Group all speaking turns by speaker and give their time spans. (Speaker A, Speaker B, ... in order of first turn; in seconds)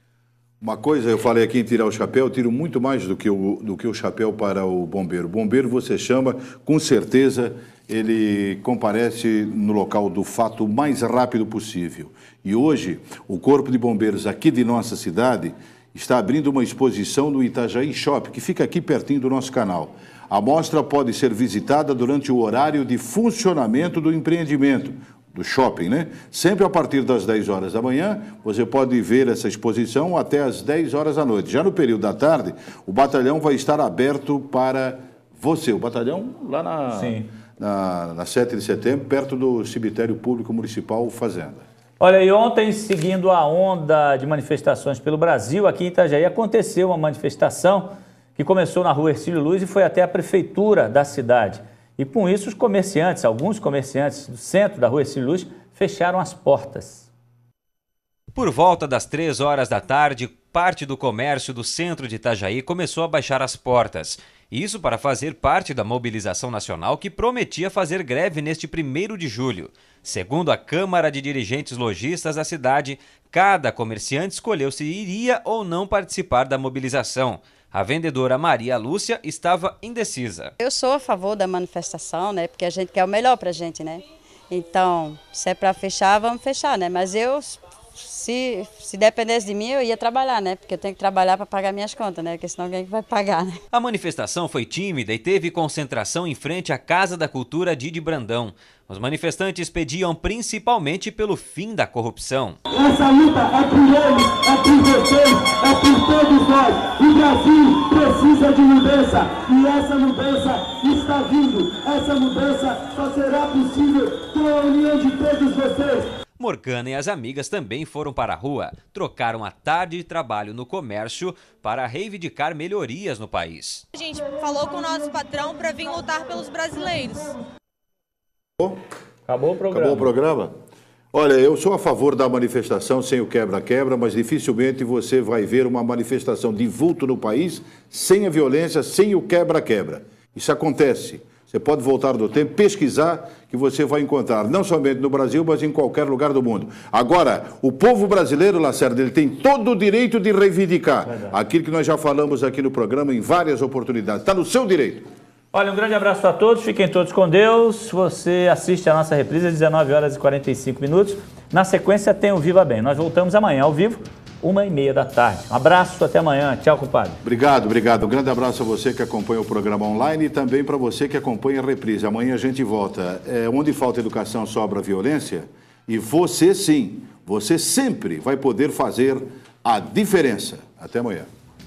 Speaker A: 0.6-41.6, 129.7-130.5, 131.1-155.1, 167.2-181.3
Speaker B: 36.9-37.2, 42.0-57.1, 129.3-130.1, 151.1-151.3, 155.5-167.2
Speaker C: 58.3-80.5, 93.7-102.6, 116.4-123.8
Speaker D: 80.6-93.6
Speaker E: 102.7-116.1, 124.2-125.1
Speaker F: 123.9-127.3